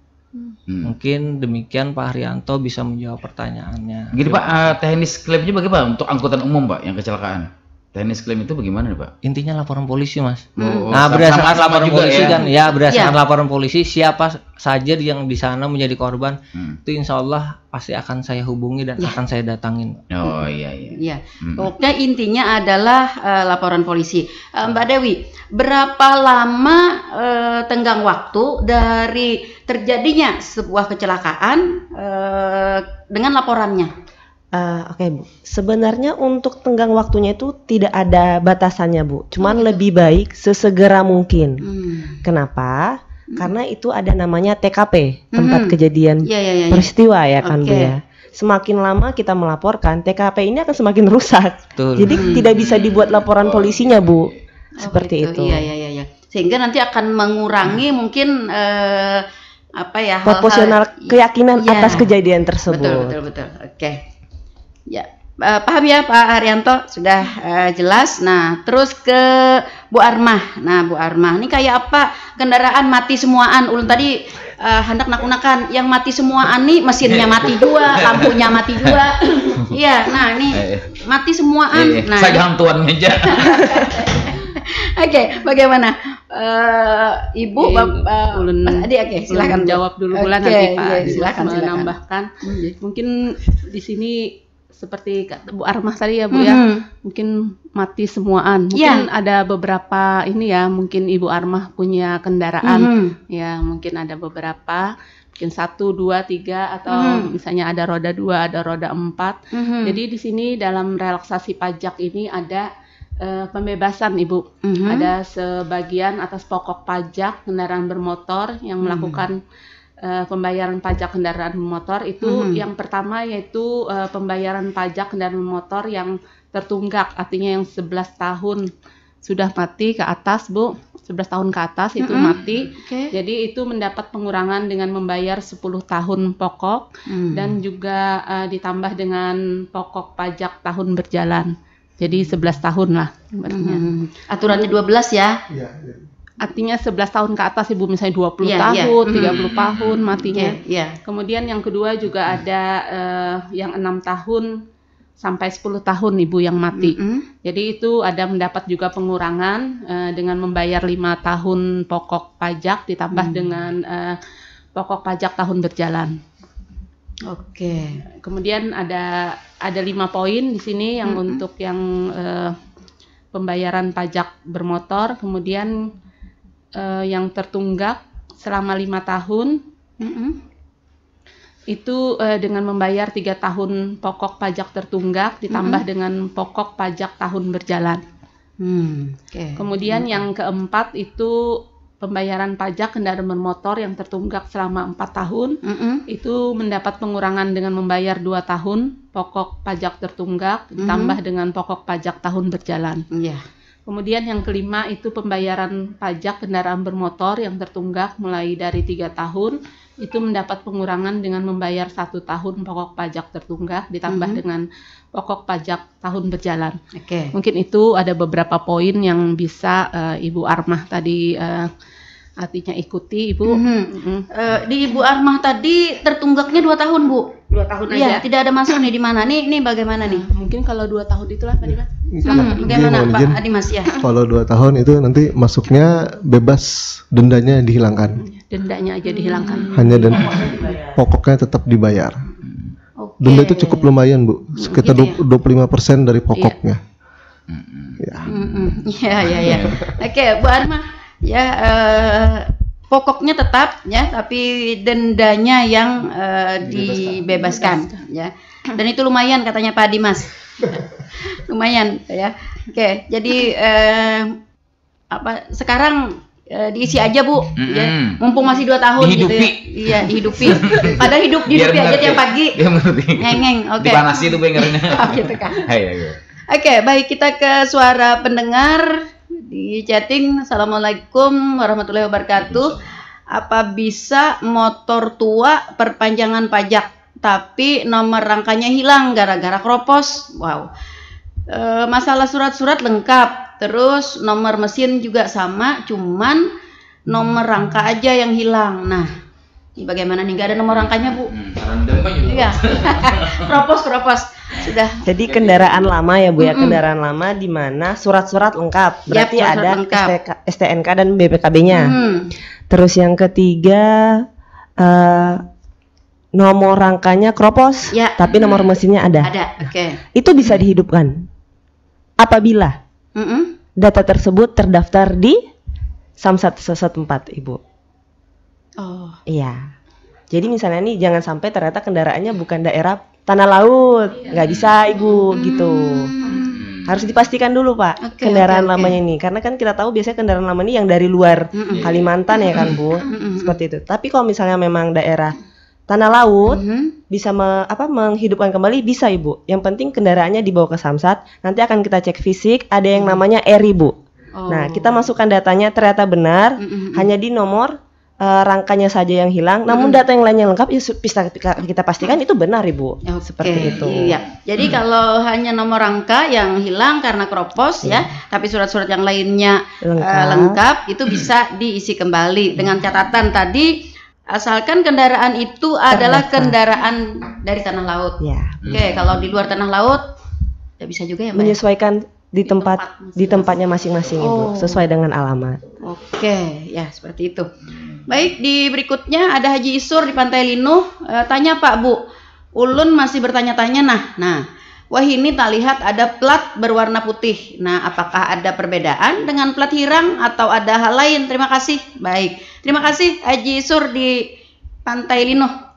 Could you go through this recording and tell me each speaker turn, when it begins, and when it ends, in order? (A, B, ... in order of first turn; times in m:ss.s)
0:00.7-0:00.9 A
0:00.8-0:04.7 B
0:04.1-0:09.1 A
0:09.2-0:20.0 B
0:10.6-0:12.5 A
0:12.3-0:13.1 C
0:20.1-0:21.7 A
0:20.9-0:33.9 C
0:34.5-0:41.6 D
0:39.4-0:39.8 C
0:41.6-0:42.2 C
0:42.2-0:55.7 D
0:45.3-0:46.9 C
0:47.4-0:47.9 C
0:51.8-0:52.3 B
0:52.1-0:52.4 C
0:52.5-0:54.4 A
0:54.8-0:59.2 C
0:59.8-1:02.1 C
1:00.2-1:03.2 D
1:02.7-1:04.0 C
1:04.9-1:22.4 C
1:17.1-1:19.0 A
1:20.5-1:20.9 A
1:21.7-1:23.9 A
1:23.2-1:31.9 C
1:27.6-1:52.7 E
1:32.4-1:32.7 C
1:36.3-1:36.8 C
1:38.7-1:39.0 C
1:42.6-1:43.1 C
1:46.9-1:47.3 C
1:49.5-1:50.0 C
1:53.2-1:59.4 E
1:54.6-1:55.1 C
1:58.8-1:59.2 C
2:00.0-2:08.7 E
2:02.2-2:02.6 C
2:09.2-2:23.9 E
2:12.0-2:13.1 C
2:17.1-2:17.6 C
2:23.5-2:25.4 C
2:25.5-2:26.0 F
2:26.4-2:34.5 E
2:28.4-2:29.4 C
2:29.1-2:30.3 A
2:30.3-2:31.0 C
2:35.2-2:44.2 E
2:36.7-2:37.2 C
2:43.1-2:43.5 C
2:44.7-2:46.2 E
2:47.3-2:48.0 C
2:48.2-2:52.5 E
2:51.0-2:51.4 C
2:53.3-2:55.8 E
2:56.8-2:59.6 E
3:00.0-3:00.4 C
3:01.7-3:08.0 E
3:05.5-3:05.8 C
3:08.6-3:10.2 C
3:09.6-3:15.6 E
3:15.6-3:16.0 C
3:16.1-3:23.0 E
3:20.8-3:21.1 C
3:23.1-3:23.4 C
3:23.9-3:36.8 E
3:34.1-3:34.4 C
3:36.9-3:37.3 C
3:37.3-3:41.7 E
3:42.4-3:44.2 E
3:43.5-3:50.2 C
3:47.5-3:48.2 E
3:50.0-3:53.1 E
3:52.1-3:53.4 F
3:52.3-3:53.9 C
3:53.9-3:58.2 F
3:58.2-3:59.9 E
3:59.1-4:00.6 C
3:59.7-4:02.2 F
3:59.9-4:01.0 D
4:02.4-4:02.7 A
4:03.0-4:03.9 C
4:03.2-4:06.8 F
4:04.8-4:05.2 C
4:07.5-4:09.9 A
4:08.0-4:08.3 F
4:08.3-4:24.4 C
4:16.7-4:17.3 F
4:17.4-4:17.9 E
4:25.1-4:32.6 C
4:27.6-4:28.2 A
4:29.0-4:36.2 A
4:33.2-4:35.7 C
4:36.5-4:38.9 C
4:39.4-4:42.8 C
4:42.4-4:42.8 A
4:43.3-4:50.7 C
4:51.5-4:56.5 C
4:57.1-4:59.1 C
4:59.8-5:01.3 C
5:00.7-5:03.6 A
5:02.2-5:05.0 C
5:04.5-5:05.9 A
5:05.0-5:12.0 D
5:06.4-5:06.8 C
5:09.1-5:10.1 C
5:11.7-5:12.3 C
5:12.7-5:14.2 D
5:14.8-5:15.4 D
5:16.4-5:19.3 D
5:17.9-5:18.7 C
5:18.3-5:18.7 A
5:19.2-5:20.0 C
5:20.2-5:21.2 D
5:22.2-5:22.8 D
5:23.2-5:23.6 C
5:23.8-5:25.4 D
5:26.2-5:27.6 D
5:28.8-5:29.2 C
5:29.3-5:29.7 D
5:30.3-5:36.1 D
5:34.4-5:34.7 A
5:35.3-5:36.6 C
5:36.2-5:36.5 E
5:36.4-5:37.3 A
5:36.8-5:45.3 D
5:38.0-5:39.0 C
5:41.5-5:41.8 C
5:41.7-5:42.7 A
5:42.4-5:43.6 C
5:45.9-5:46.6 D
5:46.4-5:46.9 C
5:47.1-5:53.9 D
5:54.4-5:55.0 C
5:54.5-6:04.2 D
5:56.6-5:57.1 C
5:59.7-6:00.0 C
6:03.0-6:13.7 C
6:03.6-6:03.9 A
6:07.8-6:08.1 D
6:09.8-6:10.6 D
6:14.3-6:20.0 C
6:15.9-6:16.6 D
6:18.2-6:18.7 D
6:18.6-6:19.5 A
6:20.8-6:21.6 C
6:21.3-6:25.6 D
6:22.4-6:23.6 E
6:24.2-6:24.8 C
6:25.8-6:27.5 C
6:27.8-6:28.3 A
6:28.1-6:32.0 C
6:32.6-6:44.3 C
6:44.8-6:45.5 C